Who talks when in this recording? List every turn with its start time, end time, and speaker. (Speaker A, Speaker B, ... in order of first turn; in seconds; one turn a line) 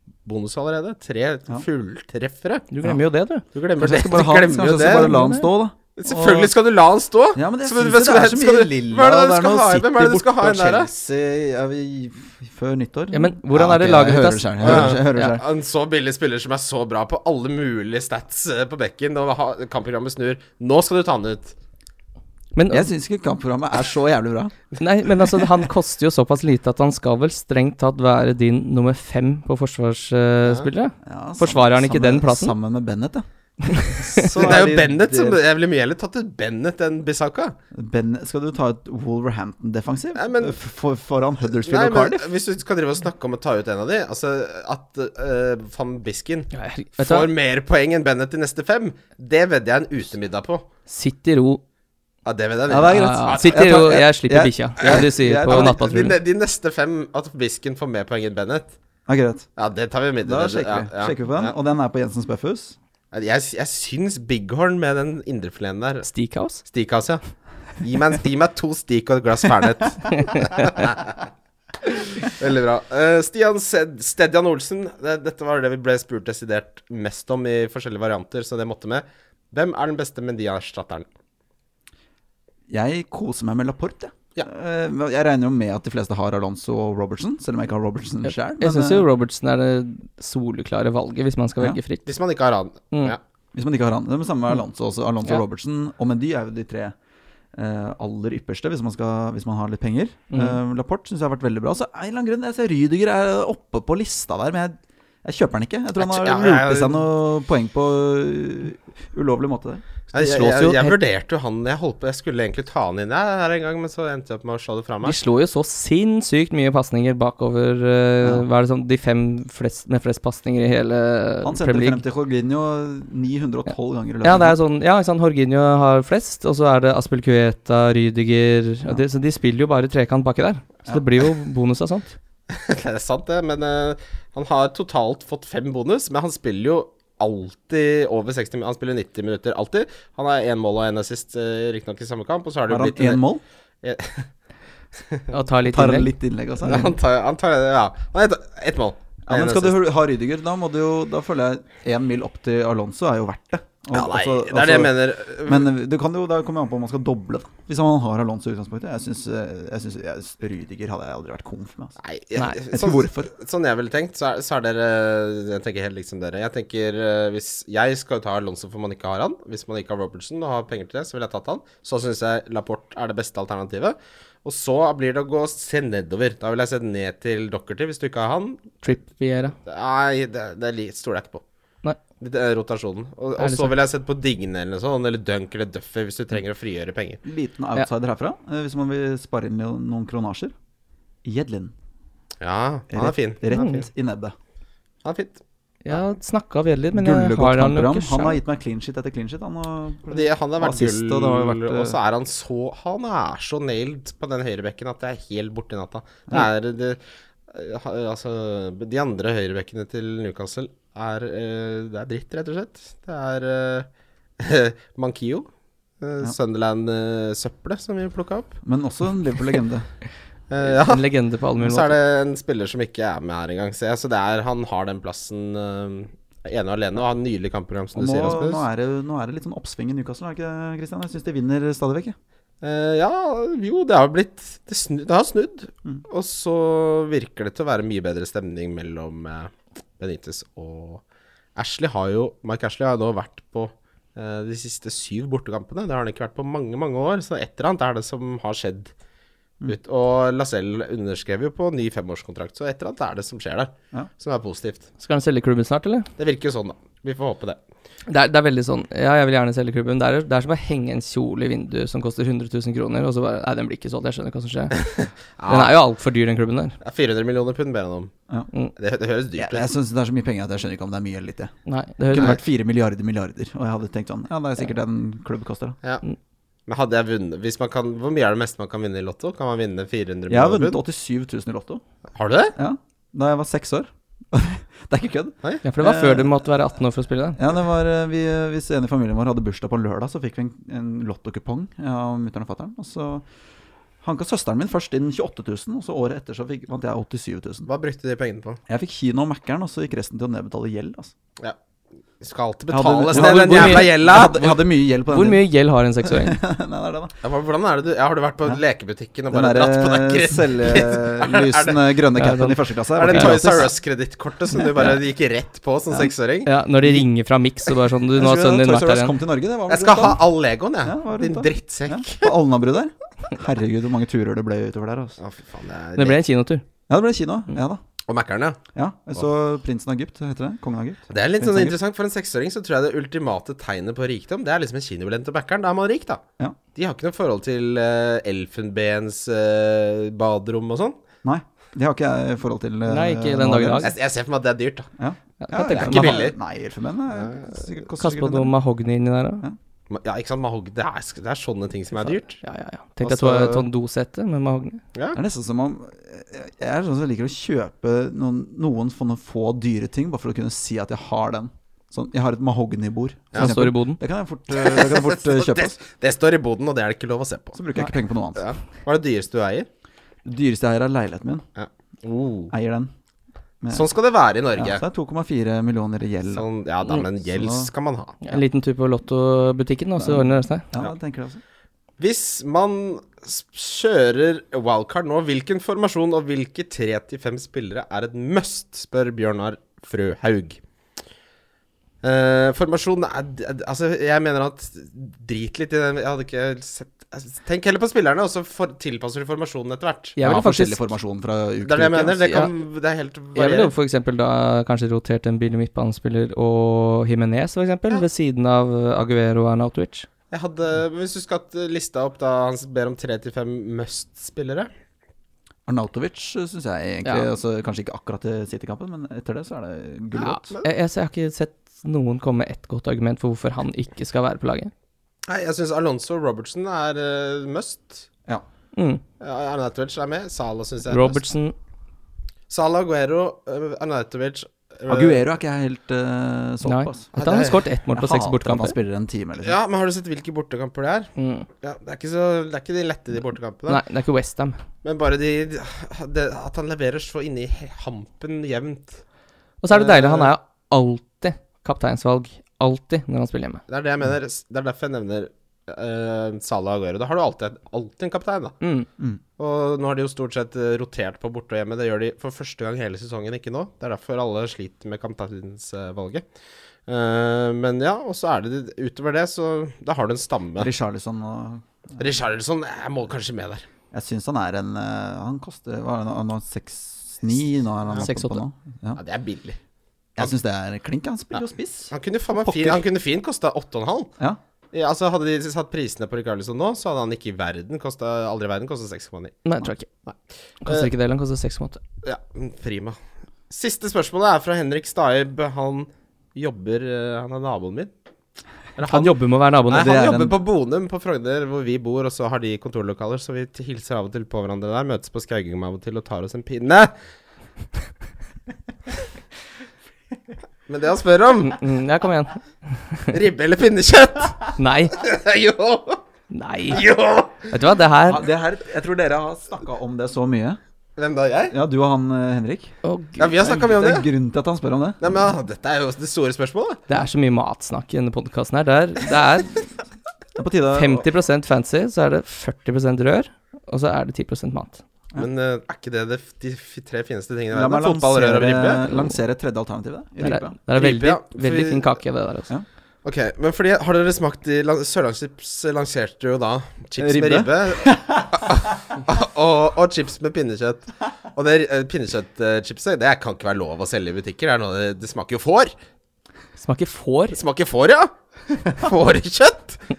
Speaker A: 0.2-2.6
Speaker B: 2.7-3.5
Speaker A: 3.5-5.2
Speaker C: 3.8-6.5
Speaker B: 4.8-5.5
Speaker A: 6.0-10.9
Speaker C: 7.3-15.4
Speaker B: 13.1-15.4
Speaker A: 14.6-21.5
Speaker B: 22.5-22.9
Speaker C: 22.7-24.5
Speaker B: 24.8-32.5
Speaker C: 31.0-33.2
Speaker B: 33.6-34.3
Speaker C: 33.8-35.4
Speaker A: 34.3-37.5
Speaker C: 37.7-42.3
Speaker A: 40.1-40.5
Speaker A: 41.5-50.6
Speaker B: 46.5-47.3
Speaker B: 50.9-51.6
Speaker A: 52.2-53.8
Speaker C: 52.7-56.0
Speaker B: 52.9-56.2
Speaker A: 54.8-58.8
Speaker C: 59.1-59.5
Speaker A: 59.6-61.5
Speaker C: 60.2-62.8
Speaker A: 63.1-66.1
Speaker B: 66.0-66.6
Speaker A: 66.6-67.2
Speaker A: 67.8-71.2
Speaker B: 70.1-70.7
Speaker A: 71.8-81.0
Speaker C: 82.7-89.1
Speaker B: 88.2-92.1
Speaker A: 92.0-93.2
Speaker C: 93.5-96.9
Speaker C: 97.5-109.8
Speaker B: 100.3-100.6
Speaker A: 106.0-107.0
Speaker A: 110.1-115.2
Speaker B: 110.1-111.0
Speaker B: 115.0-122.0
Speaker C: 121.4-124.6
Speaker B: 124.2-132.2
Speaker A: 132.5-143.2
Speaker C: 142.7-143.4
Speaker A: 143.8-144.3
Speaker B: 145.3-146.1
Speaker C: 145.6-146.9
Speaker A: 146.6-149.8
Speaker C: 149.3-154.9
Speaker A: 153.9-155.7
Speaker C: 155.4-161.9
Speaker A: 162.0-178.8
Speaker B: 162.3-162.6
Speaker C: 162.7-163.3
Speaker B: 178.8-179.5
Speaker A: 179.6-181.4
Speaker A: 182.2-187.2
Speaker B: 183.4-183.7
Speaker C: 187.2-190.5
Speaker C: 191.2-191.7
Speaker A: 192.4-193.9
Speaker C: 192.9-194.3
Speaker B: 193.5-193.8
Speaker A: 195.0-195.4
Speaker B: 195.8-198.4
Speaker C: 196.9-202.0
Speaker A: 200.1-213.9
Speaker A: 214.4-215.5
Speaker A: 216.0-218.6
Speaker C: 218.6-219.9
Speaker A: 220.5-221.1
Speaker B: 220.6-222.0
Speaker A: 221.6-228.6
Speaker C: 227.9-232.2
Speaker A: 232.6-241.0
Speaker A: 241.6-248.9
Speaker A: 249.7-254.8
Speaker B: 255.0-256.1
Speaker A: 256.2-257.6
Speaker B: 258.1-264.7
Speaker A: 264.8-265.8
Speaker B: 265.5-266.8
Speaker A: 266.8-268.1
Speaker A: 268.8-269.7
Speaker C: 269.4-271.5
Speaker B: 271.6-272.4
Speaker C: 272.1-275.8
Speaker A: 276.7-280.8
Speaker C: 280.3-281.8
Speaker A: 282.1-282.5
Speaker C: 282.5-286.4
Speaker B: 285.6-287.4
Speaker C: 287.4-293.2
Speaker C: 294.0-297.7
Speaker A: 297.7-298.6
Speaker C: 298.7-301.1
Speaker A: 302.2-304.6
Speaker C: 302.7-305.4
Speaker B: 303.1-304.4
Speaker B: 305.1-306.4
Speaker C: 306.0-307.1
Speaker A: 307.2-311.8
Speaker C: 309.3-313.7
Speaker B: 312.1-313.7
Speaker A: 312.9-316.5
Speaker B: 316.4-319.1
Speaker C: 318.1-320.2
Speaker A: 319.7-322.3
Speaker C: 320.8-325.2
Speaker A: 325.2-326.2
Speaker B: 325.9-326.6
Speaker C: 326.9-327.8
Speaker A: 328.1-328.6
Speaker C: 328.7-331.8
Speaker A: 331.1-336.2
Speaker A: 336.7-341.0
Speaker C: 341.2-343.9
Speaker B: 342.9-343.9
Speaker A: 343.8-344.9
Speaker C: 345.0-348.5
Speaker B: 345.4-346.3
Speaker A: 345.5-346.4
Speaker A: 347.1-347.6
Speaker B: 348.0-349.4
Speaker A: 349.9-352.4
Speaker B: 352.1-354.8
Speaker A: 353.0-353.6
Speaker C: 355.1-365.8
Speaker B: 363.3-364.0
Speaker A: 364.5-367.6
Speaker C: 367.5-368.4
Speaker A: 368.3-369.7
Speaker C: 370.2-371.4
Speaker A: 371.6-372.5
Speaker C: 372.5-372.9
Speaker C: 373.6-373.9
Speaker A: 373.7-374.8
Speaker C: 374.5-376.4
Speaker A: 376.3-378.2
Speaker C: 377.3-377.7
Speaker B: 378.2-380.7
Speaker C: 380.0-381.4
Speaker A: 382.0-390.6
Speaker A: 392.0-400.8
Speaker B: 400.2-400.8
Speaker C: 400.2-402.5
Speaker A: 401.6-403.7
Speaker B: 402.2-402.5
Speaker B: 403.3-410.1
Speaker A: 410.3-414.7
Speaker C: 415.7-420.4
Speaker B: 420.2-424.7
Speaker A: 420.2-420.7
Speaker A: 425.3-428.1
Speaker B: 428.7-429.0
Speaker A: 429.2-431.2
Speaker B: 430.9-431.5
Speaker A: 432.5-435.2
Speaker C: 434.9-437.1
Speaker B: 436.6-438.7
Speaker A: 437.1-437.6
Speaker C: 437.9-439.6
Speaker A: 439.4-441.1
Speaker B: 441.1-441.5
Speaker A: 441.6-443.8
Speaker B: 443.7-444.6
Speaker A: 444.8-449.0
Speaker B: 449.6-453.6
Speaker A: 449.7-450.3
Speaker A: 453.7-458.6
Speaker B: 458.6-458.9
Speaker A: 459.4-466.2
Speaker A: 466.9-470.7
Speaker C: 470.6-471.6
Speaker A: 472.0-473.6
Speaker C: 473.9-479.0
Speaker B: 478.0-478.4
Speaker A: 478.9-479.6
Speaker C: 480.2-482.8
Speaker A: 481.9-484.1
Speaker A: 484.7-489.4
Speaker B: 489.4-489.9
Speaker A: 490.1-490.9
Speaker B: 490.6-491.8
Speaker A: 492.0-492.9
Speaker A: 493.5-497.9
Speaker A: 498.8-499.1
Speaker B: 498.8-500.0
Speaker A: 499.7-506.9
Speaker C: 499.7-500.4
Speaker A: 510.7-511.6
Speaker B: 511.4-513.2
Speaker A: 513.1-516.0
Speaker B: 514.6-515.0
Speaker B: 516.3-516.8
Speaker A: 516.7-517.5
Speaker B: 517.5-518.2
Speaker C: 518.1-520.6
Speaker A: 521.0-521.5
Speaker C: 521.5-522.8
Speaker B: 522.8-523.2
Speaker A: 523.2-524.1
Speaker C: 523.4-525.3
Speaker A: 525.0-526.8
Speaker B: 526.9-529.7
Speaker C: 530.4-531.0
Speaker B: 530.7-534.8
Speaker A: 535.1-538.9
Speaker C: 537.5-540.5
Speaker B: 540.2-542.5
Speaker A: 540.7-541.9
Speaker A: 543.0-555.7
Speaker C: 547.0-548.5
Speaker B: 556.6-557.4
Speaker A: 557.3-559.8